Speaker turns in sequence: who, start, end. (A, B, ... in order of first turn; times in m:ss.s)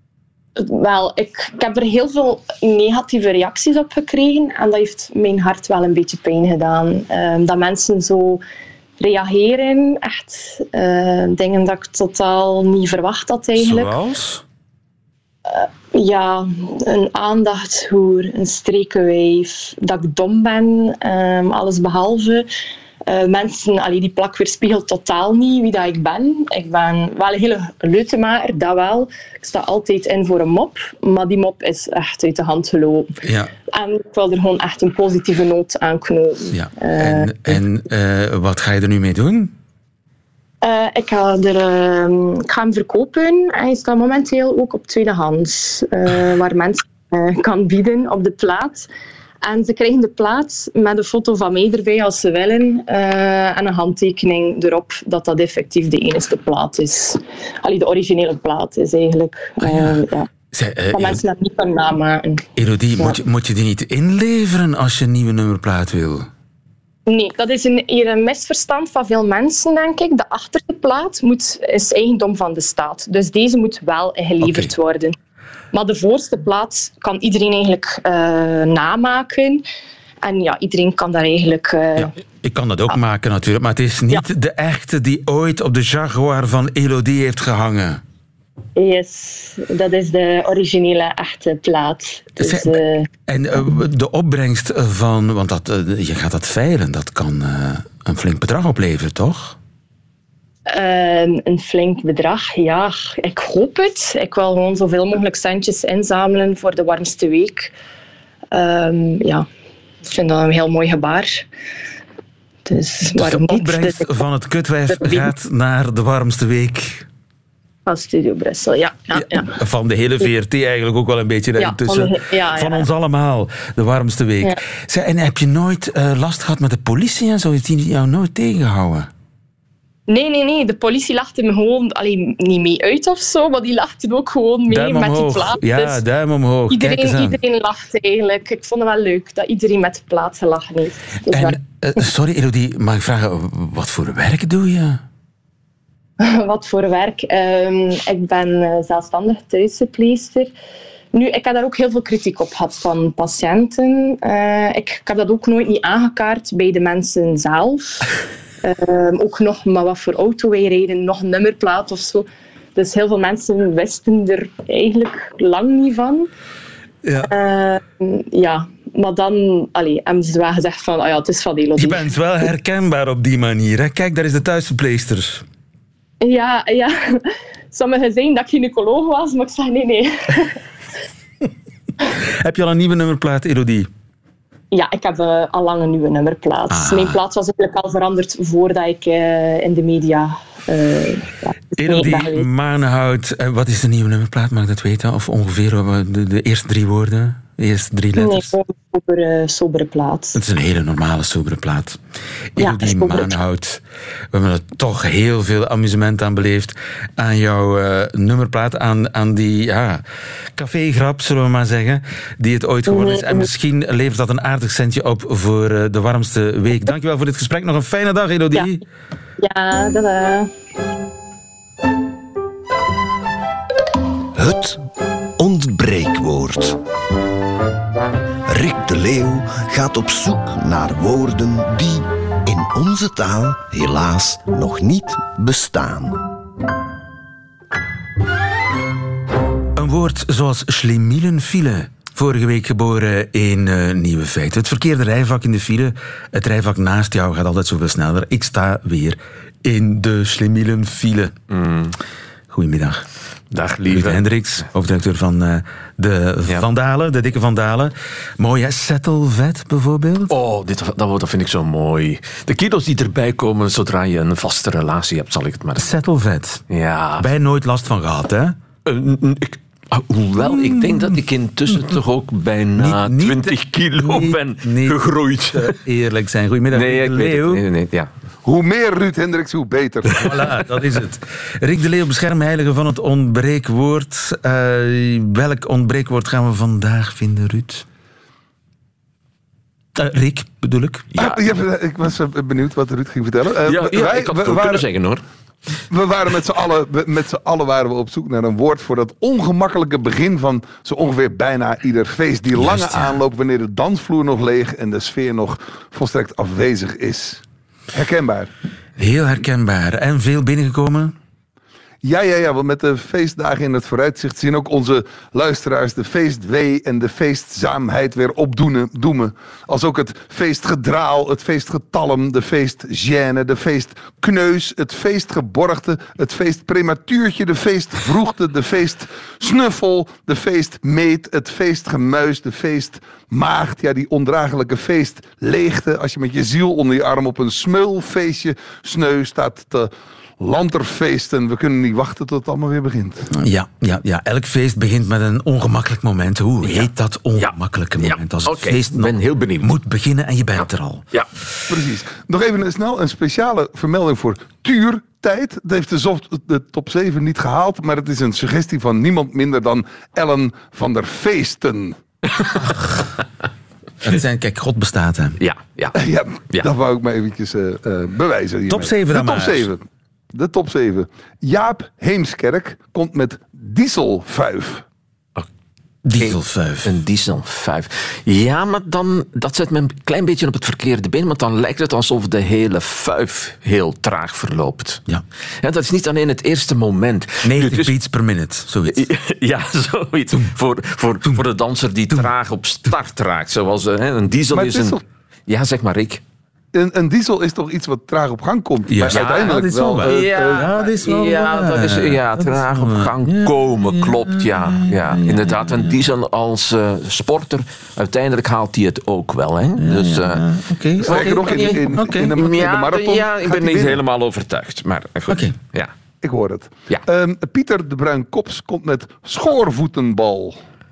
0:00.6-0:08.4 A
0:09.0-0:13.9 A
0:13.6-0:14.4 B
0:15.5-0:22.5 A
0:23.1-0:33.1 A
0:33.2-0:33.5 B
0:33.7-0:37.6 A
0:36.5-0:39.5 B
0:40.6-0:48.9 A
0:49.4-1:00.3 A
0:59.6-1:01.2 B
1:00.9-1:02.4 A
1:02.6-1:06.3 B
1:07.1-1:15.1 A
1:14.4-1:14.7 B
1:15.7-1:19.6 A
1:20.2-1:22.1 A
1:22.0-1:28.0 B
1:28.8-1:33.1 A
1:32.4-1:39.6 B
1:40.7-1:47.7 A
1:48.5-1:49.4 A
1:50.0-1:51.5 A
1:52.6-1:54.2 A
1:53.2-1:57.0 B
1:54.9-1:55.3 A
1:57.8-1:59.5 A
1:59.1-2:09.1 B
2:01.6-2:02.8 A
2:10.1-2:16.0 A
2:14.7-2:17.4 B
2:16.7-2:21.6 A
2:21.3-2:25.0 B
2:26.2-2:30.5 A
2:31.1-2:38.0 A
2:38.6-2:46.3 A
2:47.0-2:47.3 B
2:47.2-2:52.1 A
2:51.8-2:55.4 B
2:56.2-3:00.6 A
3:02.1-3:03.9 B
3:04.7-3:12.5 A
3:06.7-3:07.2 B
3:11.8-3:18.5 B
3:18.2-3:20.4 A
3:20.3-3:22.0 B
3:22.5-3:30.0 B
3:22.6-3:23.4 A
3:30.6-3:38.8 B
3:32.9-3:33.5 A
3:39.4-3:40.5 A
3:44.4-3:44.8 C
3:45.4-3:46.8 C
3:48.5-3:56.2 C
3:59.8-4:11.3 B
4:11.5-4:12.0 D
4:12.5-4:13.0 B
4:13.5-4:14.6 D
4:13.9-4:20.3 B
4:20.3-4:25.9 D
4:25.8-4:26.6 B
4:26.7-4:27.3 D
4:27.2-4:28.6 B
4:28.8-4:35.8 D
4:30.4-4:32.0 B
4:32.8-4:35.0 B
4:35.5-4:37.6 B
4:36.7-4:38.1 D
4:38.4-4:40.4 E
4:40.1-4:47.8 B
4:50.0-4:51.1 B
4:51.1-4:51.5 D
4:51.2-4:54.8 E
4:53.6-4:55.2 D
4:55.9-5:08.5 E
5:02.5-5:03.2 B
5:09.0-5:11.1 B
5:12.0-5:43.3 E
5:43.3-5:51.0 B
5:46.6-5:49.7 D
5:51.7-6:02.0 E
6:02.4-6:02.9 D
6:04.0-6:05.4 B
6:05.4-6:06.0 D
6:05.9-6:14.8 E
6:08.7-6:09.7 B
6:16.0-6:17.0 B
6:16.1-6:25.0 D
6:25.6-6:27.9 D
6:27.4-6:29.1 B
6:28.9-6:36.2 D
6:34.5-6:35.0 E
6:36.7-6:40.7 E
6:38.9-6:45.9 B
6:39.1-6:50.4 D
6:49.8-6:52.3 B
6:51.0-6:51.8 D
6:51.0-6:54.0 E
6:52.3-6:55.9 D
6:55.3-6:55.5 B
6:56.2-7:00.6 E